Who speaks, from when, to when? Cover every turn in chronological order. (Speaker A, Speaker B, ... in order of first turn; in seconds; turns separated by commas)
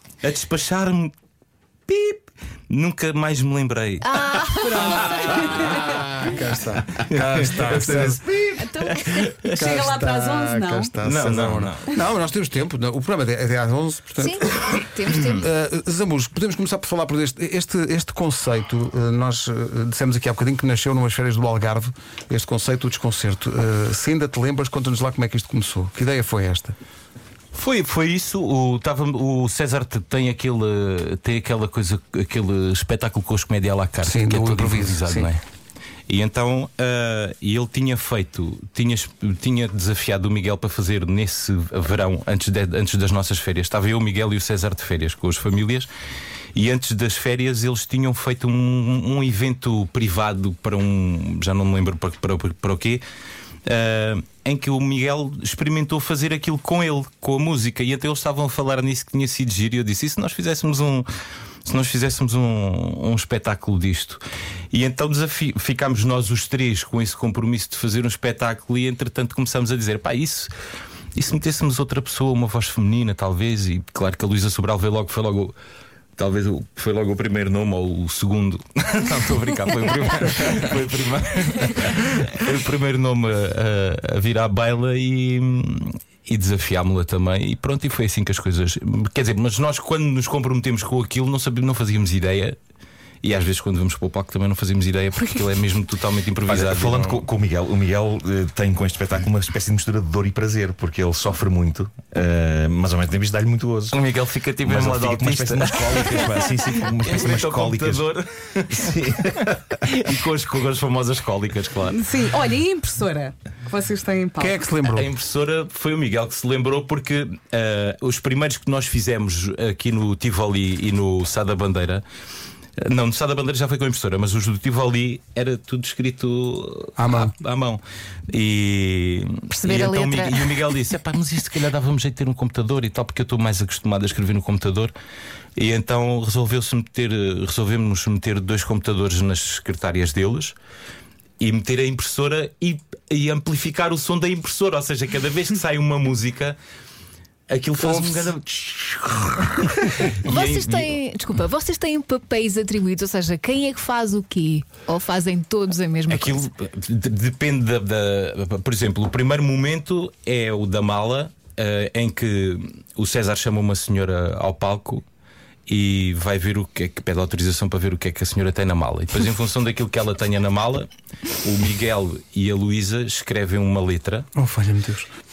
Speaker A: 0.2-1.1, Speaker A: 1.9-4.3, Speaker B: 4.0-5.2, Speaker C: 4.6-6.0, Speaker A: 5.2-5.9, Speaker D: 5.6-8.2, Speaker A: 7.0-9.7, Speaker E: 7.4-8.6, Speaker B: 8.5-9.5, Speaker D: 9.5-26.8, Speaker C: 9.6-10.9, Speaker A: 11.0-11.9, Speaker B: 14.2-15.5, Speaker A: 27.5-35.4, Speaker D: 34.0-35.3, Speaker A: 36.1-45.9, Speaker A: 46.5-53.0, Speaker A: 53.7-61.1, Speaker A: 61.6-70.5, Speaker A: 71.1-75.6, Speaker A: 76.2-92.6, Speaker A: 93.2-97.2, Speaker E: 96.5-104.0, Speaker A: 103.9-112.0, Speaker E: 104.6-108.1, Speaker E: 108.7-109.8, Speaker C: 111.8-114.6, Speaker D: 114.4-115.1, Speaker A: 114.9-122.0, Speaker A: 122.8-134.9, Speaker D: 127.0-127.3, Speaker B: 129.5-130.5, Speaker A: 135.6-140.6, Speaker A: 141.4-146.6, Speaker A: 147.5-151.0, Speaker D: 147.8-148.3, Speaker B: 150.2-156.5, Speaker A: 156.1-165.0, Speaker A: 165.7-174.3, Speaker D: 174.3-175.1